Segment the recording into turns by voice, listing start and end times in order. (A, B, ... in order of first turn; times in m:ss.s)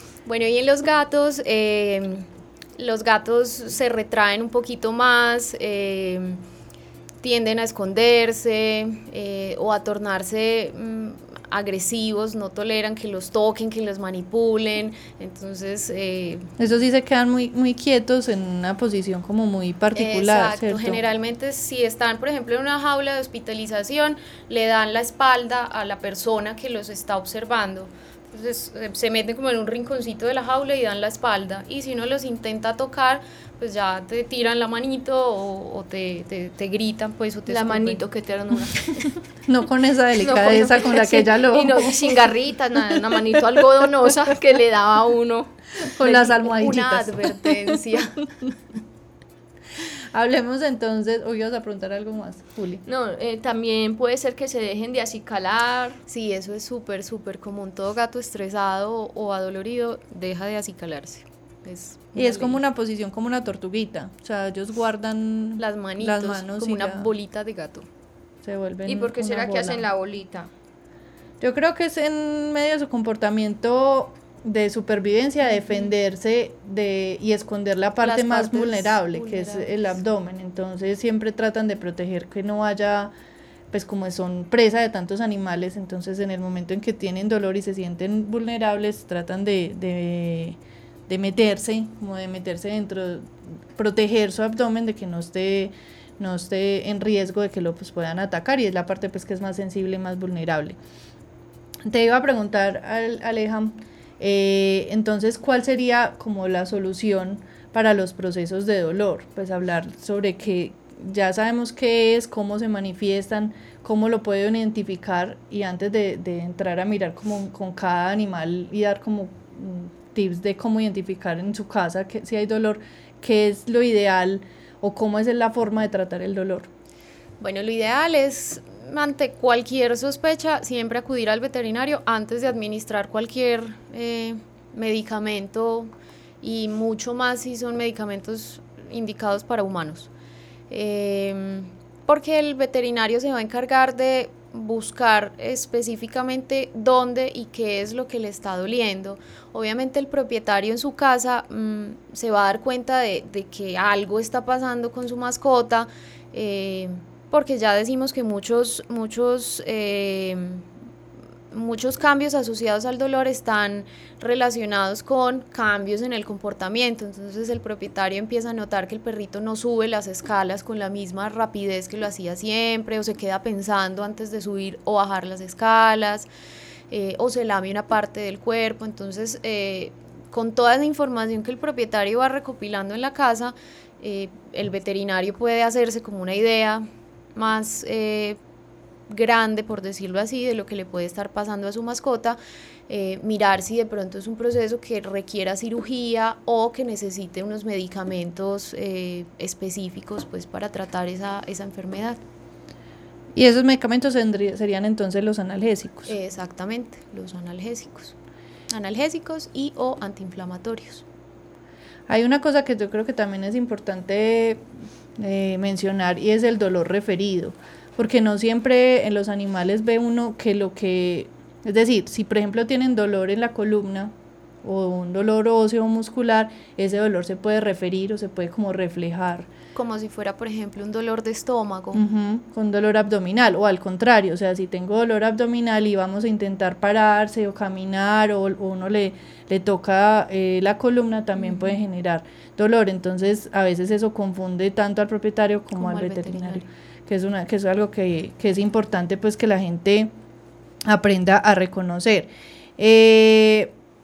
0:00.2-0:06.4 A
0:07.2-0:16.5 A
0:16.6-0:21.0 B
0:19.9-0:38.0 A
0:37.5-0:39.1 C
0:39.5-0:42.1 B
0:40.2-0:46.4 C
0:45.9-0:47.6 B
0:46.4-0:48.5 A
0:49.8-0:52.8 B
0:52.9-0:56.0 C
0:56.1-1:02.6 A
1:02.2-1:07.1 B
1:05.6-1:07.9 A
1:08.4-1:09.8 B
1:08.9-1:10.5 C
1:11.4-1:23.1 B
1:18.0-1:20.0 A
1:23.7-1:40.8 B
1:41.9-2:06.7 B
2:07.4-2:15.9 A
2:16.4-2:20.1 A
2:20.7-2:40.6 A
2:41.5-2:56.3 A
2:56.9-3:08.4 A
3:09.1-3:12.4 A
3:12.9-3:22.2 A
3:23.4-3:26.1 B
3:26.1-3:28.2 A
3:28.7-3:31.0 A
3:32.1-3:34.6 B
3:35.2-3:49.5 B
3:49.8-3:52.0 A
3:51.9-4:10.1 B
4:01.4-4:01.8 A
4:05.8-4:06.6 A
4:10.9-4:13.7 B